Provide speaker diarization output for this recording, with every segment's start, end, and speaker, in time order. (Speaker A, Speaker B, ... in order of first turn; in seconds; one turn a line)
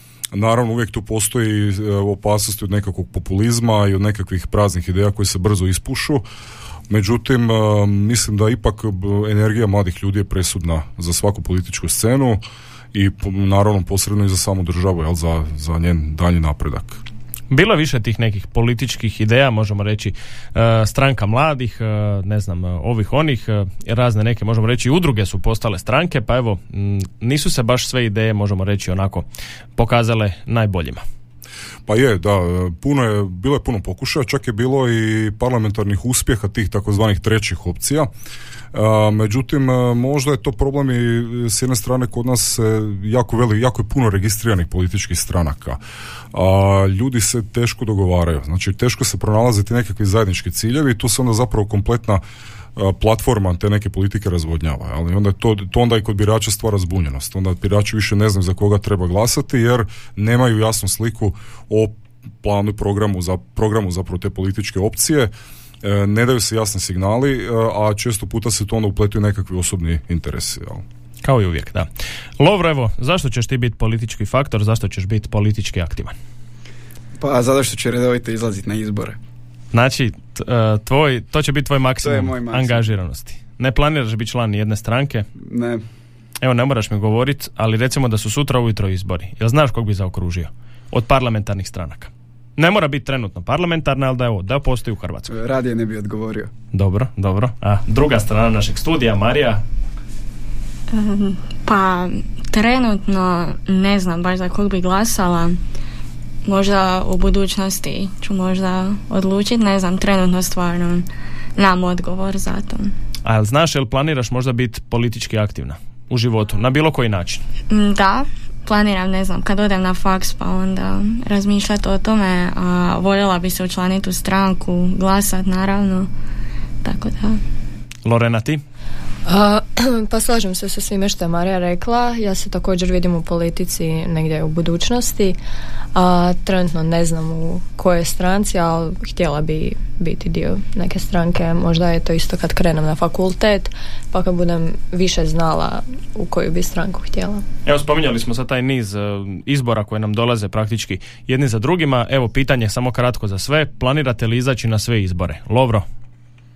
Speaker A: 0.3-6.3
Speaker A: 6.9-12.4
Speaker A: 12.9-17.0
Speaker B: 17.5-29.2
Speaker B: 29.8-31.0
Speaker A: 31.9-38.1
Speaker A: 38.7-45.8
Speaker A: 46.3-52.2
Speaker A: 52.8-65.3
Speaker A: 65.8-70.8
Speaker B: 71.2-71.9
Speaker B: 72.4-76.1
Speaker C: 77.2-79.2
Speaker B: 79.7-85.3
Speaker C: 82.0-82.8
Speaker C: 85.4-85.8
Speaker B: 86.4-95.3
Speaker C: 95.3-96.5
Speaker B: 96.7-99.6
Speaker D: 100.9-105.6
Speaker D: 106.5-112.9
Speaker B: 113.2-117.4
Speaker D: 117.7-126.1
Speaker D: 126.8-127.4
Speaker B: 128.1-128.6
Speaker E: 129.3-135.4
Speaker E: 135.9-147.4
Speaker B: 147.7-155.9